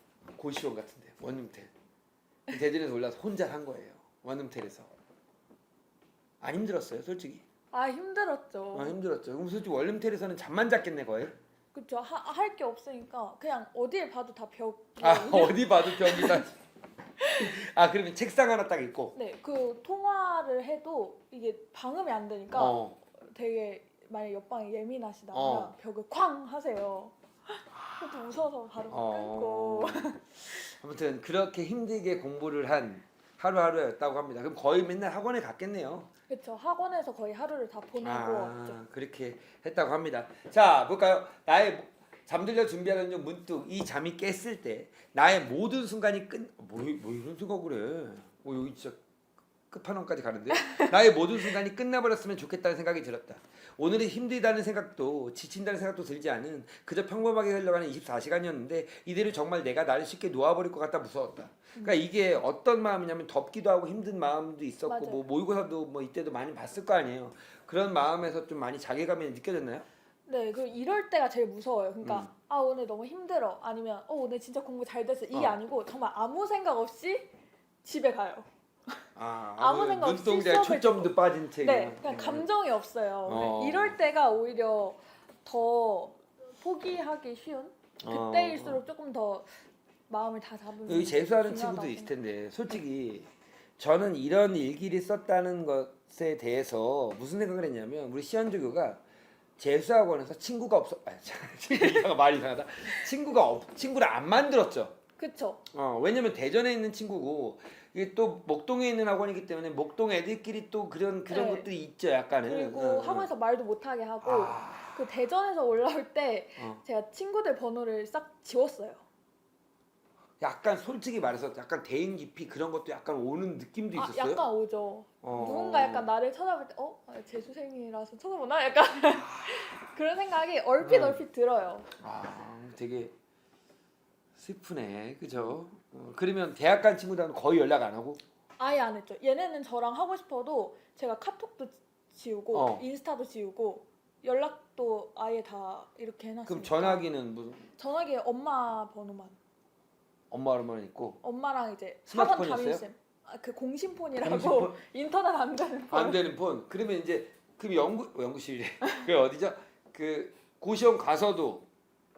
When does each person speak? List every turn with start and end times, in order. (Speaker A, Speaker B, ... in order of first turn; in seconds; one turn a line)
Speaker A: 0.4-1.7
Speaker A: 2.5-4.9
Speaker A: 6.4-7.4
Speaker B: 7.7-8.9
Speaker A: 8.7-11.3
Speaker B: 11.7-16.4
Speaker A: 15.0-16.5
Speaker B: 17.2-17.5
Speaker A: 17.4-19.1
Speaker B: 19.1-30.6
Speaker A: 22.5-23.0
Speaker A: 25.3-25.7
Speaker A: 28.9-36.1
Speaker B: 36.3-38.8
Speaker A: 38.0-49.0
Speaker A: 49.7-69.8
Speaker B: 64.9-65.2
Speaker B: 70.2-77.3
Speaker A: 72.0-72.3
Speaker B: 77.8-79.0
Speaker A: 79.2-82.5
Speaker B: 79.6-89.5
Speaker A: 83.2-84.0
Speaker A: 88.0-88.8
Speaker B: 90.1-92.1
Speaker A: 90.8-99.0
Speaker A: 99.6-105.0
Speaker B: 101.7-102.0
Speaker B: 105.2-105.6
Speaker A: 105.7-113.3
Speaker B: 111.3-111.7
Speaker B: 112.4-119.0
Speaker A: 114.2-115.0
Speaker A: 116.6-116.8
Speaker A: 120.4-124.5
Speaker B: 123.9-131.9
Speaker A: 125.2-126.1
Speaker A: 129.2-129.7
Speaker A: 130.8-131.2
Speaker A: 132.0-133.1
Speaker A: 134.4-138.2
Speaker B: 138.6-147.0
Speaker A: 142.5-142.8
Speaker A: 146.5-147.7
Speaker B: 147.8-149.4
Speaker A: 150.3-151.2
Speaker B: 151.2-156.2
Speaker A: 152.1-152.8
Speaker A: 154.2-154.8
Speaker A: 155.9-161.7